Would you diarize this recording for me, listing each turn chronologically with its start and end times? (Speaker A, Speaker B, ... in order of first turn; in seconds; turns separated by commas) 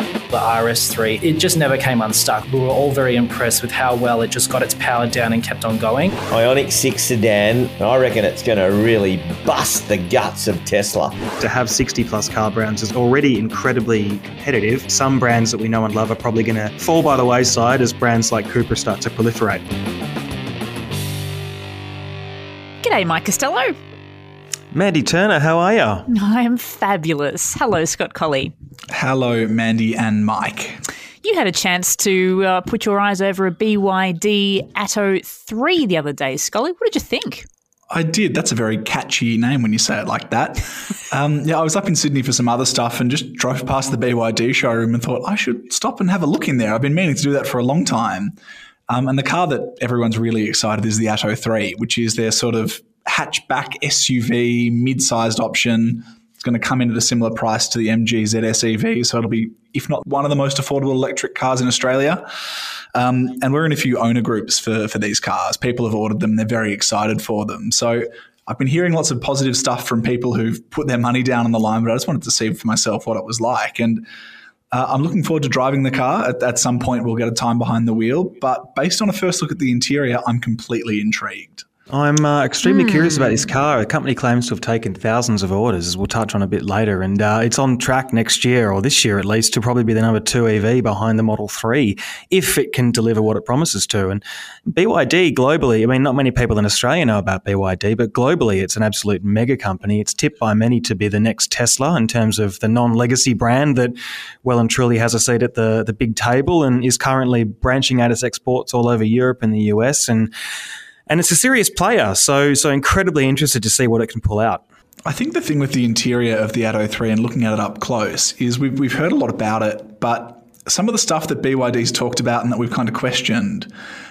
Speaker A: 0.3-6.2, Speaker B: 6.3-11.2, Speaker C: 11.4-19.6, Speaker D: 22.8-23.8, Speaker C: 24.7-26.1, Speaker D: 26.1-28.5, Speaker E: 28.9-30.8, Speaker D: 31.2-37.5, Speaker E: 37.9-48.3, Speaker E: 48.9-62.3, Speaker E: 62.9-74.1, Speaker E: 74.7-81.7, Speaker C: 81.9-110.3, Speaker D: 82.7-83.4, Speaker C: 111.1-114.6, Speaker E: 115.1-123.7